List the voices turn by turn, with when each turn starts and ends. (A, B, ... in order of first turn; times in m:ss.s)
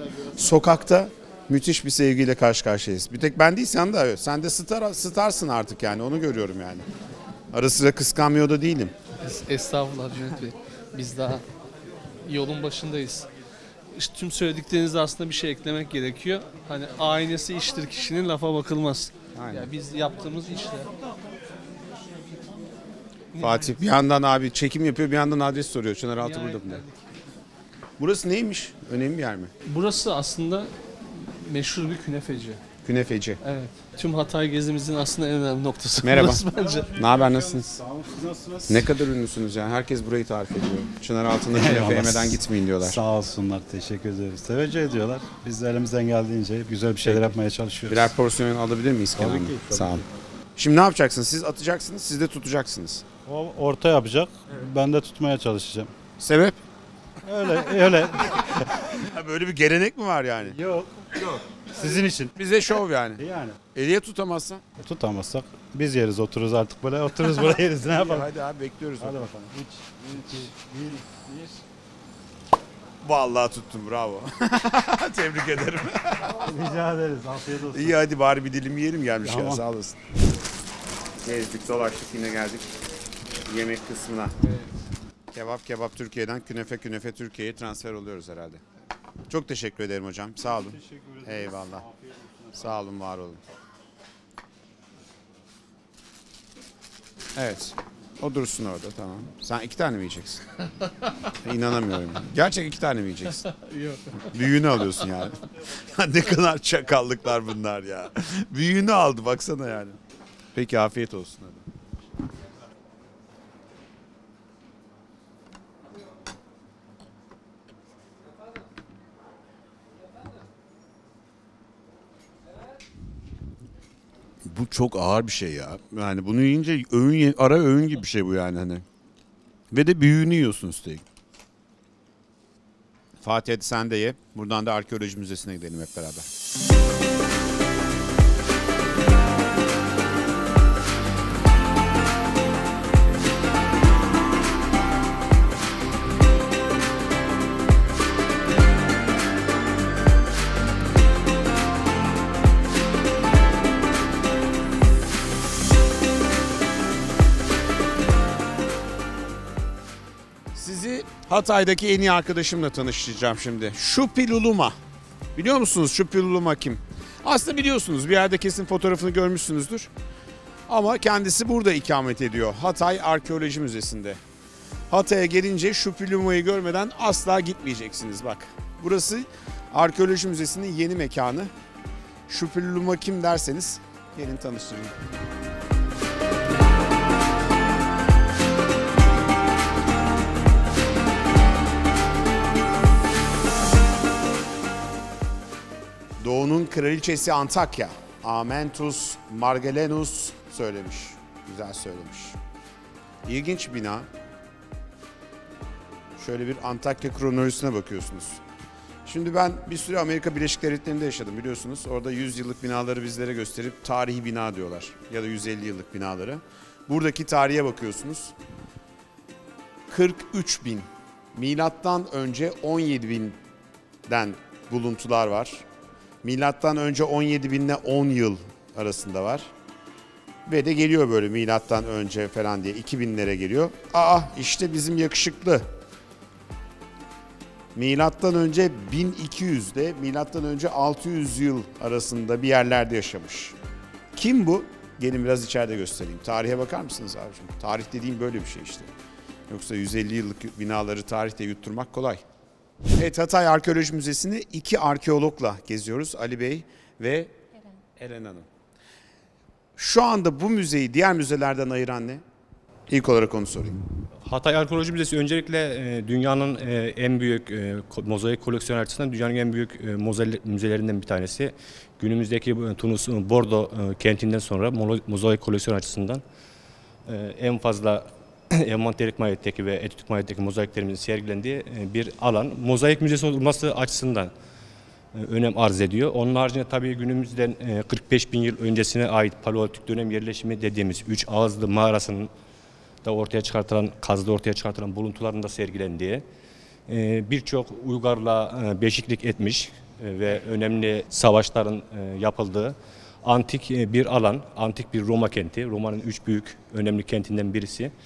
0:00.3-0:06.9 A
0:07.5-0:08.9 A
0:09.2-0:11.4 B
0:12.2-0:13.3 B
0:14.0-0:20.9 B
0:19.4-0:19.7 A
0:23.3-0:23.8 B
0:23.4-0:26.8 A
0:26.2-0:27.2 B
0:28.0-0:29.5 A
0:29.6-0:32.6 B
0:32.8-0:33.4 A
0:33.4-0:36.9 B
0:36.0-0:37.8 A
0:36.6-0:38.9 C
0:38.7-0:43.0 A
0:41.5-0:48.2 C
0:47.0-0:47.3 A
0:47.9-0:50.0 A
0:49.2-0:50.0 C
0:50.6-0:53.1 A
0:53.2-0:55.9 C
0:56.2-0:56.6 A
0:57.2-0:58.7 C
0:58.9-1:00.6 A
1:00.5-1:02.3 C
1:02.4-1:03.2 A
1:03.2-1:03.6 C
1:03.7-1:04.6 A
1:04.8-1:08.3 C
1:07.8-1:09.3 A
1:09.0-1:11.6 C
1:13.0-1:16.3 A
1:16.3-1:18.0 C
1:17.7-1:20.0 A
1:19.2-1:19.6 C
1:21.2-1:22.7 A
1:23.4-1:24.4 A
1:25.3-1:28.6 A
1:29.3-1:31.9 A
1:30.6-1:32.6 C
1:32.5-1:33.4 A
1:37.4-1:40.4 A
1:41.4-1:43.4 A
1:43.5-1:44.2 B
1:44.3-1:50.0 A
1:50.5-1:51.6 A
2:04.4-2:08.8 A
2:09.7-2:11.0 A
2:13.2-2:16.3 A
2:40.5-2:44.8 A
2:45.4-2:49.9 A
2:50.7-2:54.2 A
2:54.9-3:01.5 A
3:02.3-3:05.0 A
3:16.2-3:22.4 A
3:23.3-3:24.1 A
3:26.2-3:28.4 A
3:29.1-3:38.3 A
3:39.9-3:43.4 A
3:44.1-3:45.6 A
3:46.2-3:49.5 A
3:50.5-3:55.7 A
3:57.8-4:03.6 A
4:04.1-4:08.9 A
4:09.5-4:12.2 A
4:13.0-4:17.4 A
4:18.0-4:18.5 A
4:19.8-4:22.2 A
4:22.9-4:23.8 A
4:24.3-4:36.2 D
4:37.1-4:44.3 D
4:45.2-4:52.3 D
4:53.0-4:56.2 D
4:56.9-5:07.9 D